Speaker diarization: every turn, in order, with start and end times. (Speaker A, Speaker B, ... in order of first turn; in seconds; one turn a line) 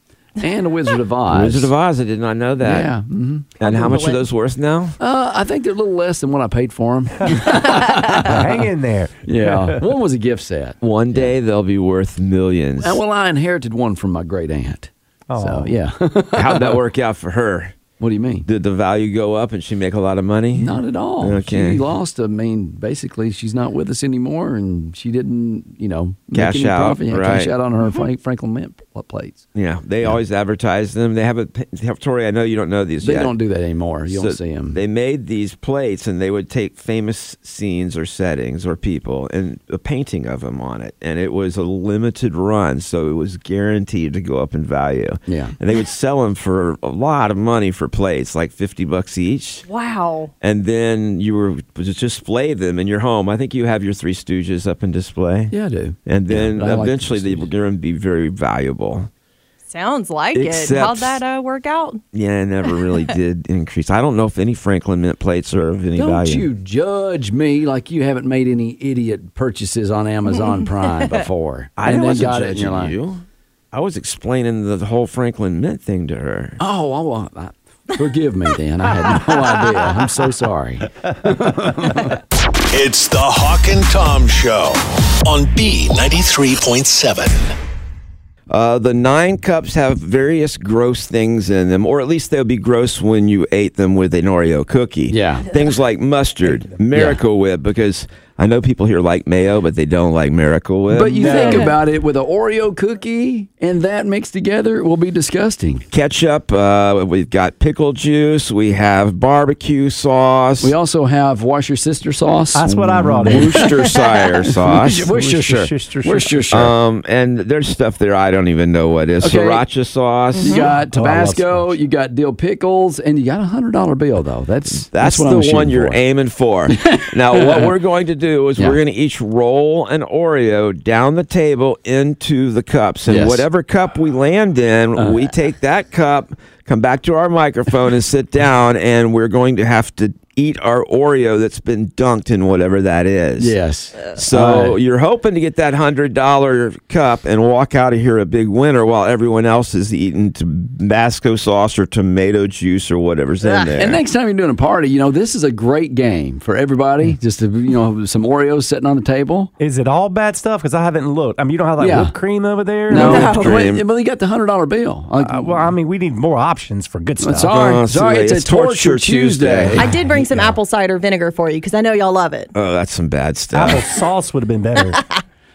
Speaker A: 0.4-1.7
Speaker B: 1.3-2.9
Speaker A: 2.6-3.5
Speaker B: 3.6-5.0
Speaker C: 3.6-4.2
Speaker A: 5.0-8.4
Speaker D: 8.1-9.8
Speaker A: 9.2-11.3
Speaker B: 10.8-13.0
Speaker A: 12.8-16.8
Speaker D: 15.3-15.8
Speaker B: 16.3-17.8
Speaker A: 18.0-18.4
Speaker B: 18.4-21.8
Speaker A: 20.5-29.4
Speaker B: 26.3-27.5
Speaker B: 29.5-33.3
Speaker A: 33.0-34.8
Speaker B: 34.1-49.6
Speaker A: 45.3-45.5
Speaker C: 49.6-50.3
Speaker B: 50.4-55.5
Speaker A: 55.5-57.5
Speaker B: 56.0-59.1
Speaker C: 59.7-62.0
Speaker B: 60.3-61.2
Speaker B: 62.1-66.5
Speaker A: 66.0-72.9
Speaker C: 70.3-71.2
Speaker B: 71.8-76.6
Speaker A: 76.6-82.2
Speaker E: 82.7-87.5
Speaker B: 88.5-101.7
Speaker A: 95.1-95.5
Speaker A: 96.9-97.2
Speaker A: 100.9-105.8
Speaker D: 101.2-101.6
Speaker B: 105.9-110.7
Speaker A: 110.6-113.7
Speaker D: 112.5-113.7
Speaker B: 113.3-115.0
Speaker D: 114.6-116.5
Speaker A: 114.7-116.7
Speaker B: 116.5-120.7
Speaker A: 119.2-119.6
Speaker C: 120.3-120.7
Speaker A: 120.3-126.0
Speaker D: 120.8-121.8
Speaker B: 124.9-154.0
Speaker A: 126.7-127.7
Speaker A: 133.1-133.4
Speaker A: 134.9-135.3
Speaker A: 143.4-144.8
Speaker A: 153.8-159.5
Speaker D: 159.6-163.2
Speaker A: 161.8-162.1
Speaker A: 162.9-165.7
Speaker B: 162.9-163.8
Speaker C: 162.9-163.6
Speaker D: 165.2-167.6
Speaker A: 167.2-169.8
Speaker B: 167.5-169.9
Speaker C: 169.8-172.5
Speaker D: 169.8-170.6
Speaker B: 172.5-173.8
Speaker D: 173.5-175.0